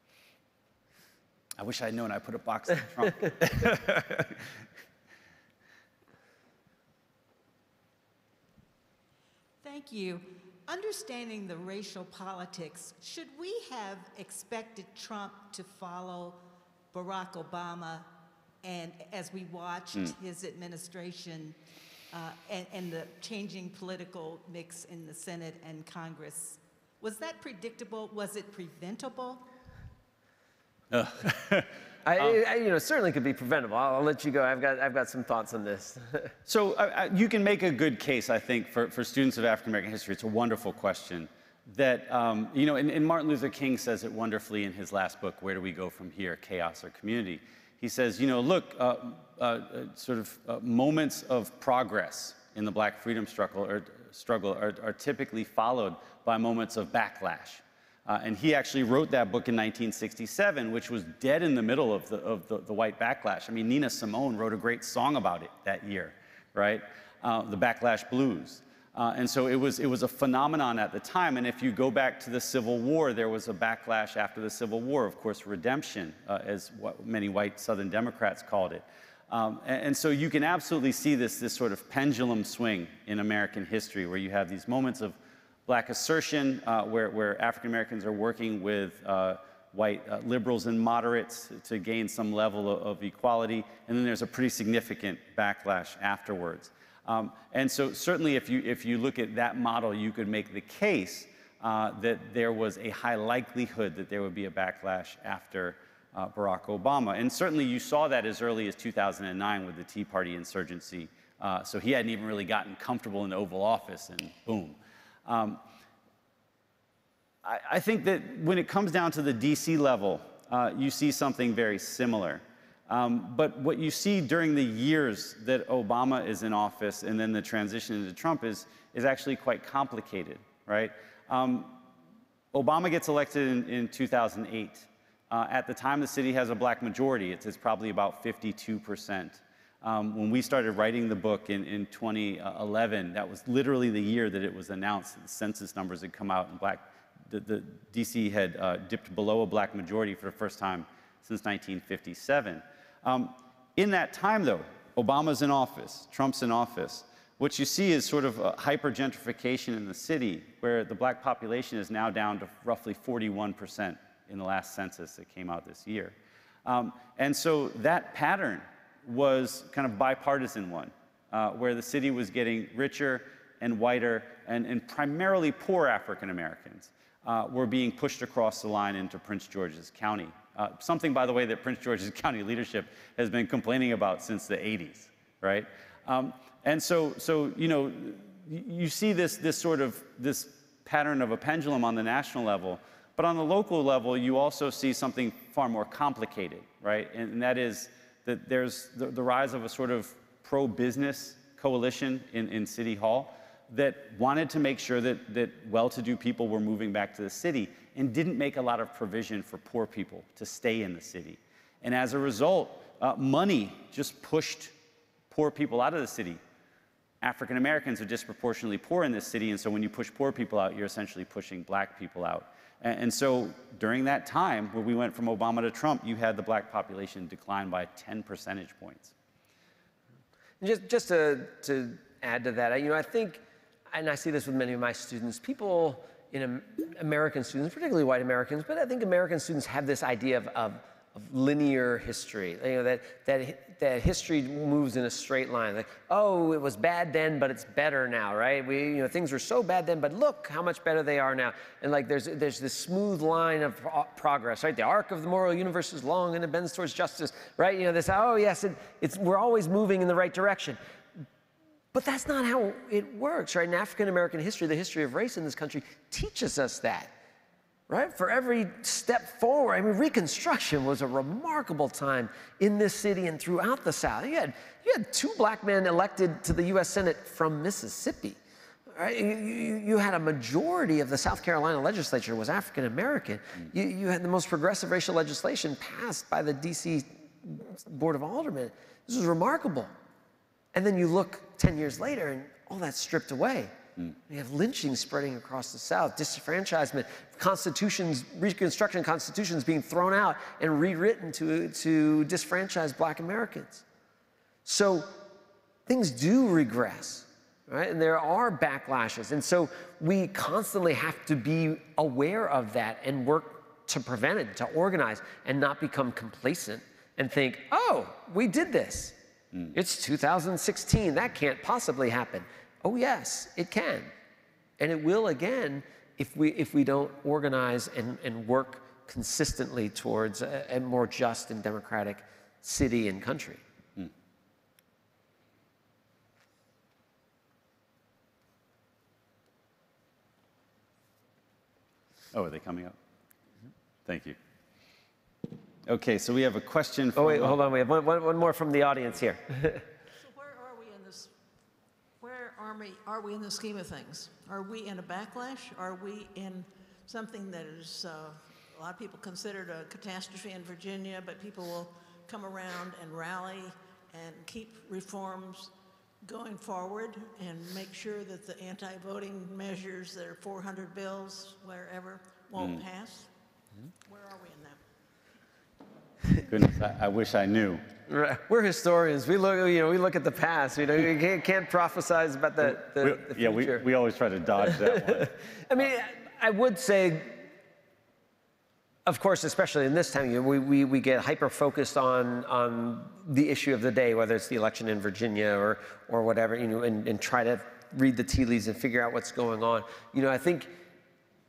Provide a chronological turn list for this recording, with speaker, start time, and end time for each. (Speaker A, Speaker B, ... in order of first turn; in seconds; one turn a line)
Speaker A: 1.6-4.3
Speaker B: 9.6-18.1
Speaker B: 18.6-21.6
Speaker B: 22.1-29.5
Speaker A: 30.9-32.4
Speaker C: 32.0-36.3
Speaker A: 36.5-115.6
Speaker A: 117.4-131.8
Speaker A: 132.5-214.7
Speaker A: 215.3-216.4
Speaker A: 217.2-229.1
Speaker C: 230.6-260.8
Speaker C: 261.9-267.1
Speaker C: 267.9-278.4
Speaker C: 278.9-289.9
Speaker C: 290.7-293.7
Speaker C: 294.3-303.8
Speaker C: 304.6-305.2
Speaker C: 305.9-319.2
Speaker C: 319.7-324.1
Speaker C: 324.8-333.6
Speaker A: 342.3-342.9
Speaker A: 344.1-344.4
Speaker A: 345.9-347.6
Speaker C: 347.2-349.8
Speaker D: 350.2-351.3
Speaker D: 352.2-373.3
Speaker A: 372.6-372.8
Speaker D: 374.1-374.8
Speaker A: 376.5-377.8
Speaker C: 378.1-383.9
Speaker A: 382.6-385.4
Speaker C: 384.7-387.5
Speaker C: 389.1-400.7